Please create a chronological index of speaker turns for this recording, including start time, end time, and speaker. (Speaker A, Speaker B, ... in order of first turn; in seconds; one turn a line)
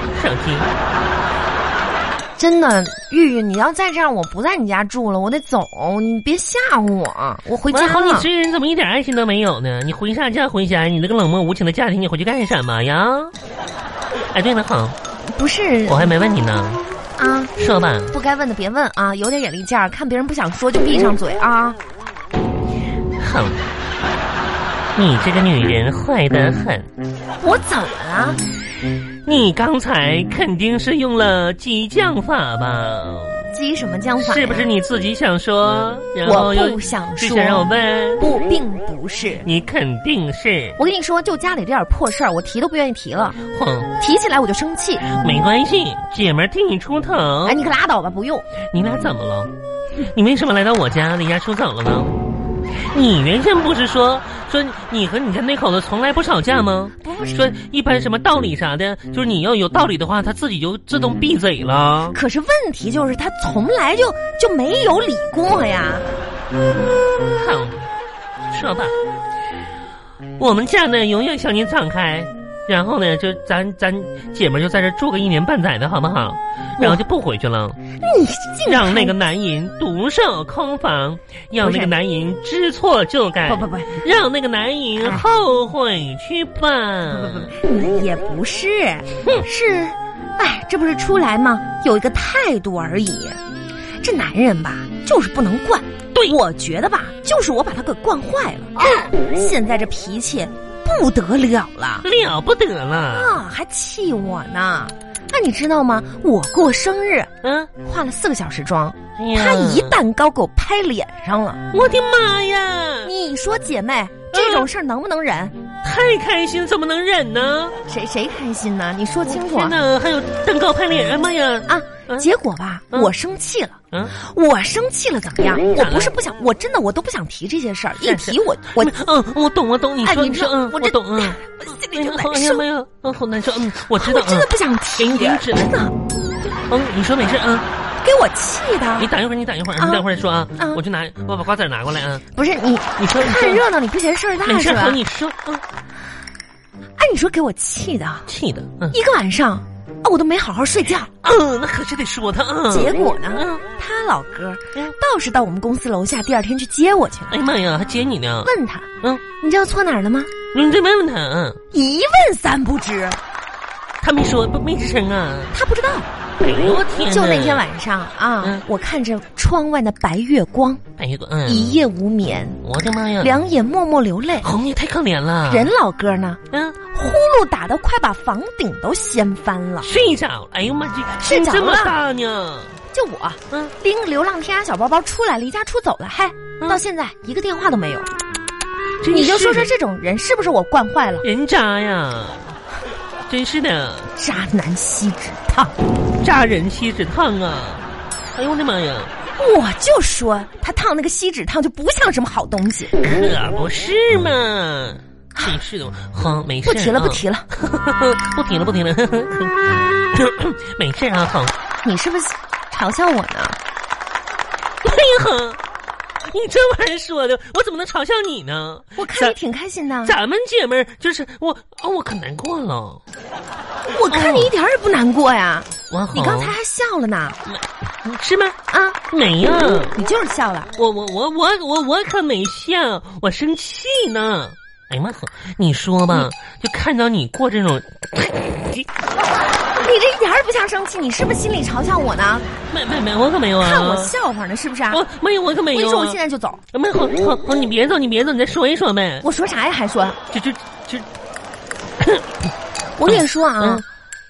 Speaker A: 0.1-0.7
Speaker B: 2.4-8.3
Speaker A: 7.7-13.3
Speaker A: 14.3-14.9
Speaker B: 15.3-16.1
Speaker A: 15.9-16.8
Speaker B: 17.2-17.5
Speaker A: 17.6-18.1
Speaker B: 18.1-21.8
Speaker A: 23.2-23.6
Speaker A: 24.9-26.9
Speaker B: 27.4-28.4
Speaker A: 29.2-33.5
Speaker B: 33.5-34.7
Speaker A: 34.2-38.2
Speaker B: 36.2-39.5
Speaker A: 39.4-40.8
Speaker B: 40.8-43.4
Speaker A: 43.5-43.9
Speaker B: 44.0-45.1
Speaker A: 45.0-47.6
Speaker B: 47.4-48.5
Speaker A: 48.7-52.2
Speaker A: 52.8-62.1
Speaker B: 57.0-57.5
Speaker B: 62.1-66.1
Speaker A: 67.3-67.8
Speaker A: 68.5-68.9
Speaker A: 70.4-77.8
Speaker B: 78.0-79.1
Speaker A: 78.7-87.5
Speaker B: 81.6-81.9
Speaker B: 83.5-84.0
Speaker B: 85.0-85.2
Speaker B: 87.1-93.4
Speaker B: 94.0-102.0
Speaker A: 102.0-103.3
Speaker B: 103.1-107.3
Speaker A: 107.4-107.7
Speaker B: 107.8-111.6
Speaker A: 109.2-110.0
Speaker A: 111.7-113.1
Speaker B: 113.0-115.5
Speaker A: 114.3-114.7
Speaker A: 115.8-117.7
Speaker B: 117.8-119.8
Speaker A: 119.2-122.3
Speaker B: 121.7-128.9
Speaker A: 125.7-126.1
Speaker A: 128.0-135.7
Speaker B: 130.0-132.6
Speaker B: 133.9-135.9
Speaker A: 136.5-137.6
Speaker B: 138.0-139.1
Speaker A: 139.0-142.2
Speaker B: 139.8-140.0
Speaker B: 142.3-145.0
Speaker A: 143.0-143.6
Speaker A: 144.4-145.6
Speaker B: 147.0-148.3
Speaker A: 148.3-148.9
Speaker B: 148.9-151.1
Speaker A: 151.2-153.6
Speaker B: 152.7-157.4
Speaker A: 157.3-158.5
Speaker B: 158.4-160.3
Speaker A: 160.5-161.6
Speaker B: 161.7-163.2
Speaker A: 164.0-165.5
Speaker B: 165.5-166.1
Speaker A: 166.4-167.6
Speaker B: 167.1-170.8
Speaker A: 171.0-171.7
Speaker B: 171.4-172.6
Speaker A: 172.6-173.3
Speaker B: 173.2-174.5
Speaker A: 174.4-175.7
Speaker B: 175.5-179.9
Speaker A: 176.5-176.8
Speaker A: 179.8-182.8
Speaker B: 181.2-182.0
Speaker B: 182.9-188.1
Speaker A: 189.0-189.7
Speaker B: 189.1-191.2
Speaker A: 191.2-192.6
Speaker A: 193.3-194.1
Speaker B: 194.2-195.7
Speaker A: 196.2-199.1
Speaker B: 199.3-202.9
Speaker A: 202.9-211.5
Speaker B: 206.6-207.4
Speaker B: 211.8-213.6
Speaker A: 214.8-215.6
Speaker A: 216.2-219.3
Speaker B: 218.9-220.1
Speaker A: 220.0-223.0
Speaker B: 223.9-227.4
Speaker A: 224.1-224.5
Speaker A: 225.9-226.6
Speaker A: 227.4-228.6
Speaker B: 228.7-229.0
Speaker A: 229.1-229.9
Speaker B: 229.9-230.7
Speaker A: 230.8-238.9
Speaker B: 239.8-242.5
Speaker A: 242.7-244.1
Speaker B: 243.6-245.0
Speaker A: 244.9-246.2
Speaker B: 245.7-246.6
Speaker A: 246.7-249.3
Speaker B: 249.2-250.2
Speaker A: 250.3-251.1
Speaker A: 252.0-252.2
Speaker B: 253.0-253.8
Speaker A: 253.1-253.8